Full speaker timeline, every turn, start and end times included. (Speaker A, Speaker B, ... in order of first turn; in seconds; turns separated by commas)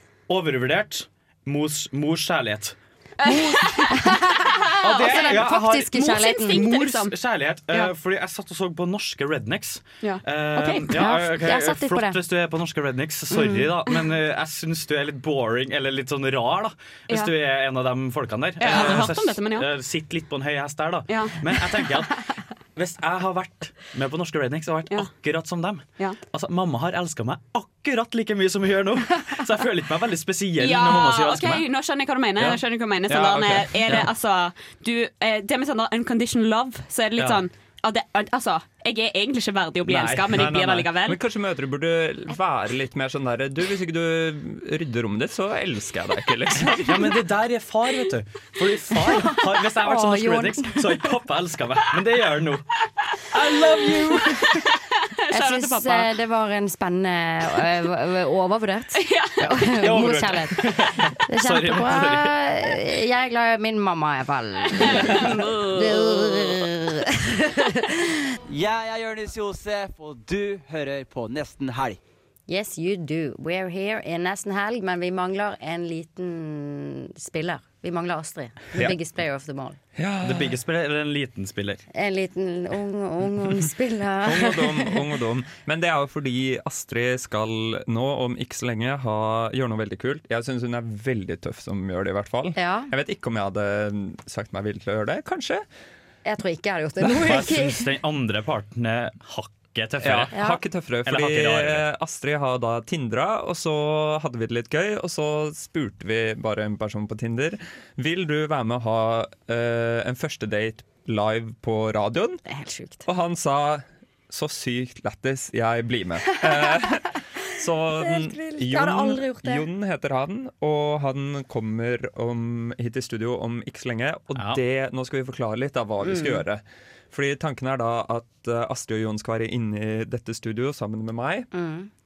Speaker A: 0.3-3.6, Speaker B: 3.2-4.1, Speaker C: 3.9-6.6, Speaker A: 4.8-22.2, Speaker B: 4.8-7.1, Speaker C: 10.6-12.2, Speaker B: 18.6-19.7, Speaker B: 21.1-21.7, Speaker A: 22.7-31.6, Speaker B: 30.6-41.2, Speaker A: 32.4-34.1, Speaker A: 37.2-37.4, Speaker D: 39.9-47.1, Speaker A: 40.0-40.8, Speaker A: 46.8-52.6, Speaker C: 49.1-51.0, Speaker A: 53.3-54.7, Speaker B: 54.1-54.7, Speaker B: 55.3-56.1, Speaker C: 55.3-60.7, Speaker B: 59.0-59.4, Speaker A: 59.4-62.3, Speaker C: 61.3-68.0, Speaker B: 64.8-66.4, Speaker E: 68.5-72.0, Speaker C: 72.5-79.8, Speaker D: 80.0-80.6, Speaker A: 80.2-81.8, Speaker C: 81.9-85.0, Speaker D: 84.2-95.6, Speaker C: 92.5-92.9, Speaker C: 96.2-97.9, Speaker A: 97.2-100.3, Speaker D: 100.0-112.4, Speaker C: 100.3-100.6, Speaker A: 101.0-101.8, Speaker C: 112.5-113.0, Speaker D: 113.0-131.5, Speaker C: 118.0-119.7, Speaker A: 124.3-124.6, Speaker C: 126.0-126.4, Speaker C: 131.5-131.9